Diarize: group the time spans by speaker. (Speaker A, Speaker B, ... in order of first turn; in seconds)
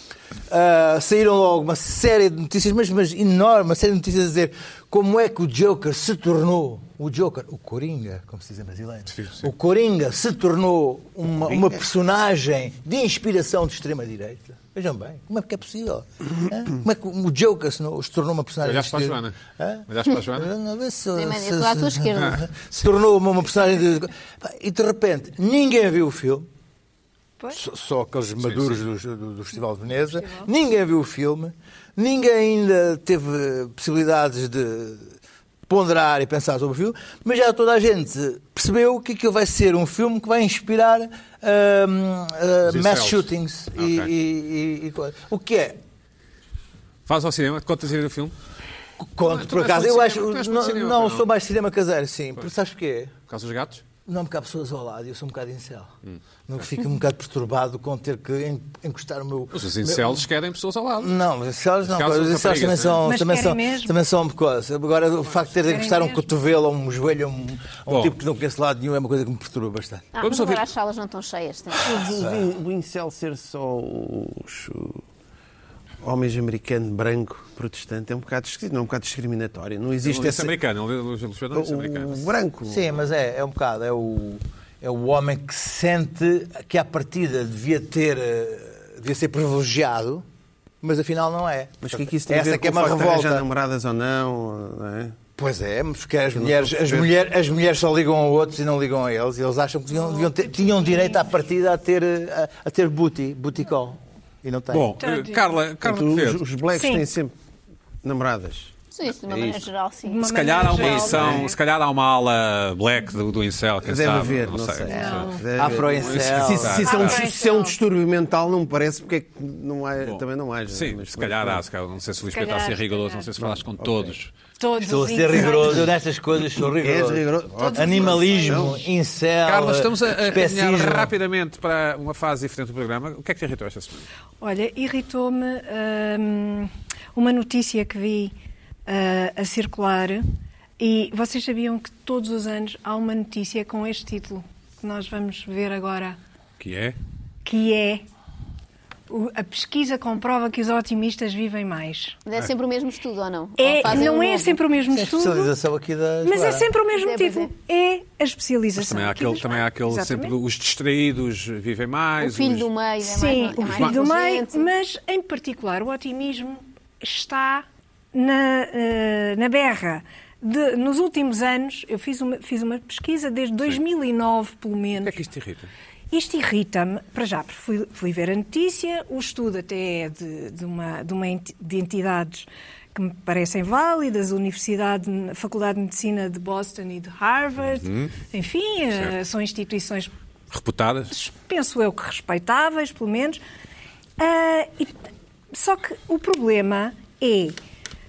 Speaker A: 0.5-26.5, 27.5-35.1, 35.7-45.8, 49.0-53.1, 54.0-55.9, 56.5-60.2, 61.0-70.1, 72.1-72.4, 82.7-90.2, 90.8-93.4, 95.4-104.9, 115.5-116.8, 124.8-131.1, 154.9-156.7
Speaker B: 9.1-9.5, 18.6-19.4, 19.9-20.5, 28.5-28.8, 42.7-44.1, 47.1-48.3, 49.2-51.2, 53.3-53.8, 59.5-61.1, 61.8-63.0, 67.9-68.1, 70.2-70.6, 80.0-82.3, 104.7-106.4, 110.2-115.3, 115.9-117.2, 120.0-124.3, 129.4-134.1, 146.6-146.9, 158.8-162.7, 175.0-175.7, 187.7-188.1, 190.5-191.1
Speaker C: 11.5-11.8, 71.8-75.0, 76.0-80.5, 81.5-82.8, 91.8-95.2, 96.3-97.1, 105.8-107.3, 108.0-108.7, 109.2-109.7, 110.7-111.5, 113.8-121.6, 123.4-124.1, 126.6-128.8
Speaker D: 21.1-22.4, 70.1-72.0, 108.9-110.3, 152.2-154.6, 156.9-157.5, 162.2-164.7
Speaker E: 30.1-30.5, 63.0-64.0, 65.5-66.3, 100.0-101.2, 105.0-105.5, 106.7-107.0, 110.0-111.5, 114.8-115.4, 116.7-117.8, 122.3-123.3, 124.6-125.9, 127.6-128.7, 134.4-138.3, 138.8-140.2, 140.8-146.2, 147.4-148.0, 149.1-152.2, 153.6-155.5, 156.2-160.3, 163.0-175.2, 176.1-190.1, 191.1-193.4, 194.2-194.9, 195.5-197.6